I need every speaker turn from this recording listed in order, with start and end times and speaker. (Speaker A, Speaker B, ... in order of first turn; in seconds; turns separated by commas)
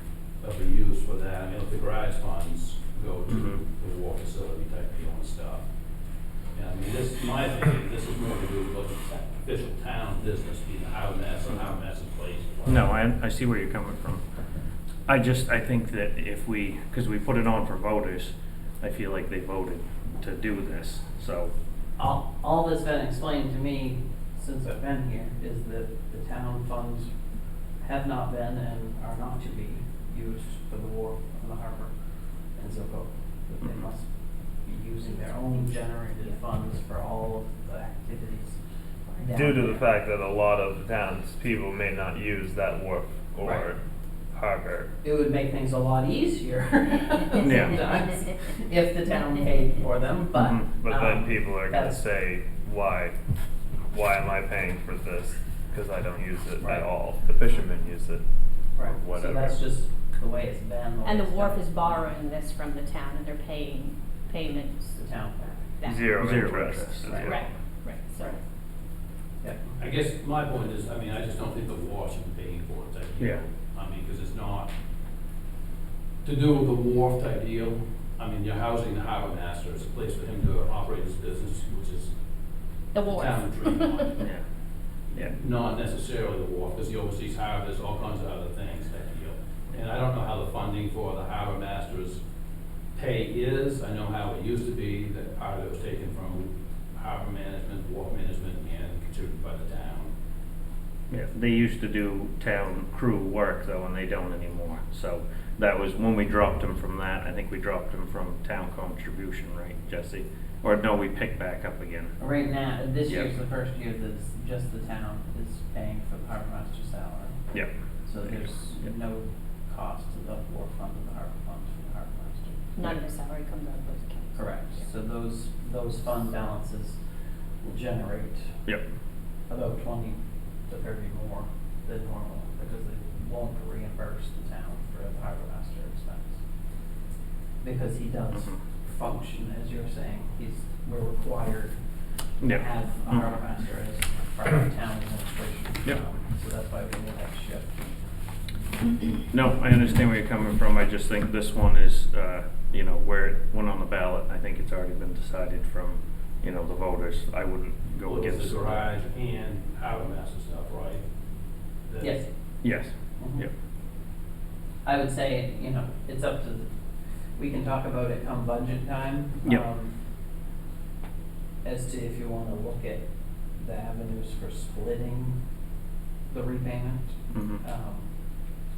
Speaker A: 0.4-5.7, Speaker B: 3.3-3.6, Speaker A: 6.5-12.9, Speaker B: 12.7-14.2, Speaker B: 15.1-21.5, Speaker C: 22.0-27.2, Speaker C: 27.7-38.6, Speaker B: 33.6-33.9, Speaker D: 35.0-35.6, Speaker D: 39.1-39.3, Speaker C: 39.2-39.8, Speaker E: 39.3-44.9, Speaker C: 43.4-43.7, Speaker C: 45.0-52.0, Speaker B: 47.4-47.9, Speaker B: 50.3-50.8, Speaker E: 50.7-53.2, Speaker E: 53.9-59.6, Speaker C: 56.6-56.8, Speaker C: 58.7-62.0, Speaker D: 61.0-64.9, Speaker C: 64.9-65.6, Speaker D: 65.7-66.1, Speaker E: 65.8-67.5, Speaker B: 66.1-67.2, Speaker D: 67.2-68.4, Speaker C: 69.4-69.7, Speaker A: 69.8-74.7, Speaker A: 76.2-82.1, Speaker D: 82.9-84.1, Speaker A: 83.0-84.2, Speaker A: 85.1-92.2, Speaker A: 93.0-100.1, Speaker B: 101.1-112.2, Speaker C: 112.2-117.4, Speaker B: 113.1-113.3, Speaker B: 117.5-118.9, Speaker C: 118.0-122.7, Speaker D: 122.8-124.9, Speaker C: 124.4-127.0, Speaker C: 127.6-128.6, Speaker C: 129.5-136.4, Speaker C: 137.6-141.8, Speaker B: 138.3-138.7, Speaker B: 142.4-143.3, Speaker C: 142.4-147.8, Speaker B: 149.3-158.9, Speaker A: 158.0-161.0, Speaker A: 161.8-162.2, Speaker C: 162.0-162.3, Speaker B: 162.6-163.5, Speaker C: 163.1-163.4, Speaker C: 164.8-166.7, Speaker C: 167.3-169.9, Speaker C: 171.6-175.4, Speaker C: 176.3-178.1, Speaker B: 177.3-177.6